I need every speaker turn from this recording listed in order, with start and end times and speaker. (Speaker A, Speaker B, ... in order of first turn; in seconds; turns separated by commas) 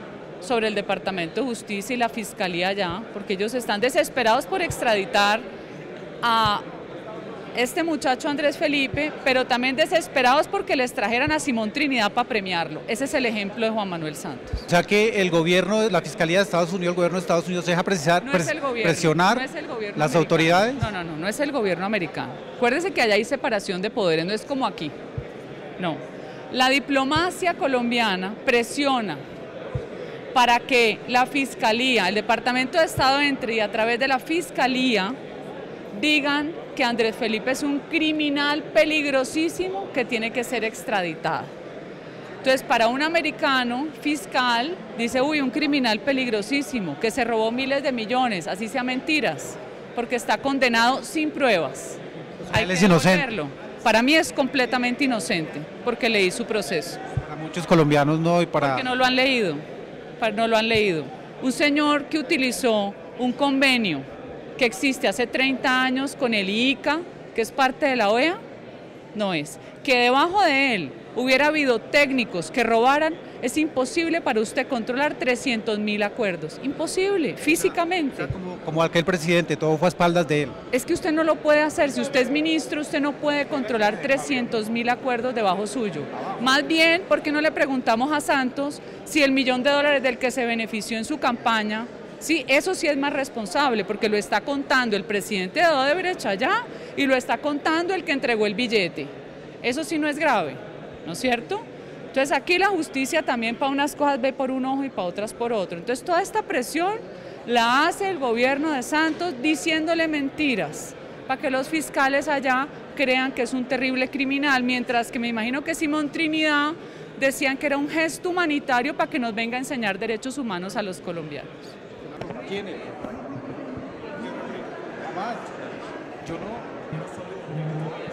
Speaker A: 0.4-5.4, Speaker A: 6.2-6.6, Speaker A: 7.5-14.7, Speaker B: 14.7-19.4, Speaker A: 18.2-24.9, Speaker B: 19.9-20.8, Speaker A: 25.8-29.2, Speaker A: 30.3-35.1, Speaker A: 35.9-41.5, Speaker A: 42.4-57.0, Speaker B: 52.4-53.2, Speaker B: 57.1-58.8, Speaker A: 58.6-59.6, Speaker A: 60.2-64.0, Speaker A: 64.6-68.4, Speaker A: 69.1-78.3, Speaker B: 78.2-80.5, Speaker A: 80.7-99.1, Speaker A: 99.6-121.7, Speaker B: 122.2-123.0, Speaker B: 124.2-125.6, Speaker B: 126.2-126.7